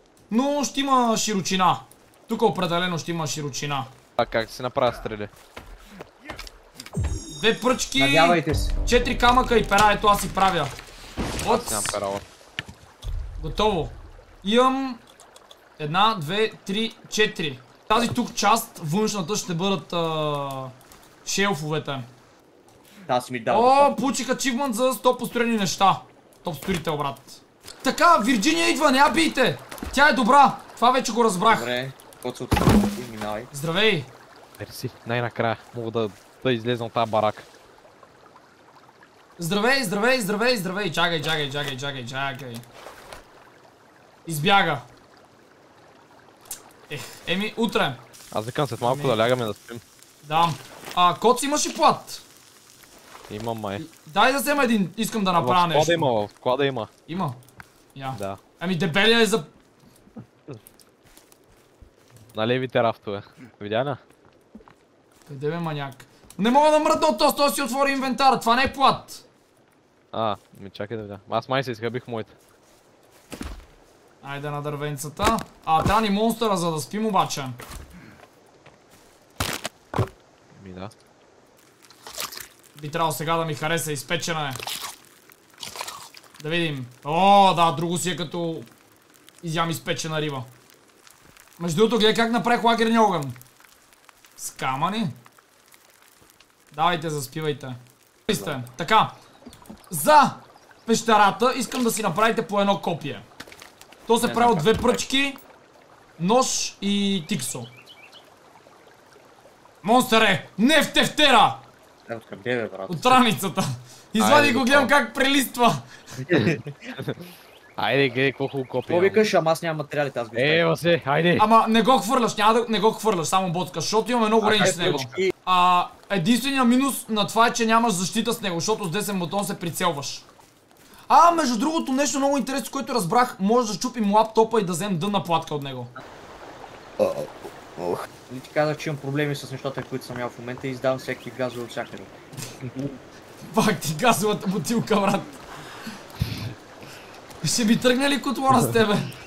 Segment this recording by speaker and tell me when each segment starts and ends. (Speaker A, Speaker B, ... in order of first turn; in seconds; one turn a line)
Speaker A: 0.3-3.9
Speaker B: 4.2-5.3
Speaker A: 7.3-10.7
Speaker C: 8.0-8.7
Speaker A: 11.4-12.0
Speaker B: 11.4-12.2
Speaker A: 13.4-15.0
Speaker A: 15.8-20.7
Speaker A: 21.2-22.1
Speaker C: 23.1-23.9
Speaker A: 23.5-31.7
Speaker C: 31.5-33.5
Speaker A: 33.5-34.1
Speaker B: 34.6-37.5
Speaker A: 39.4-42.6
Speaker A: 44.3-44.9
Speaker A: 46.9-48.0
Speaker B: 48.3-49.8
Speaker A: 48.8-49.2
Speaker A: 50.2-52.2
Speaker B: 53.3-53.8
Speaker A: 53.8-56.1
Speaker B: 55.4-56.9
Speaker A: 57.1-57.4
Speaker A: 58.0-59.5
Speaker B: 58.1-58.4
Speaker B: 62.3-64.0
Speaker A: 65.3-69.2
Speaker B: 70.1-72.3
Speaker A: 74.2-77.6
Speaker B: 80.5-80.9
Speaker A: 82.8-84.6
Speaker A: 86.4-88.7
Speaker A: 89.4-90.5
Speaker A: 91.6-93.4
Speaker A: 94.4-95.2
Speaker A: 96.7-99.2
Speaker C: 98.3-98.5
Speaker A: 99.9-103.2
Speaker A: 104.1-105.4
Speaker C: 104.2-105.0
Speaker A: 106.2-107.7
Speaker A: 109.8-111.6
Speaker C: 112.1-113.2
Speaker A: 112.9-115.9
Speaker B: 114.2-114.9
Speaker C: 116.3-116.7
Speaker B: 116.3-119.2
Speaker C: 118.9-120.6
Speaker B: 120.3-121.5
Speaker A: 121.4-130.2
Speaker C: 124.4-125.3
Speaker A: 131.1-135.9
Speaker C: 137.0-142.1
Speaker B: 142.6-142.9
Speaker A: 143.4-145.4
Speaker A: 147.4-149.1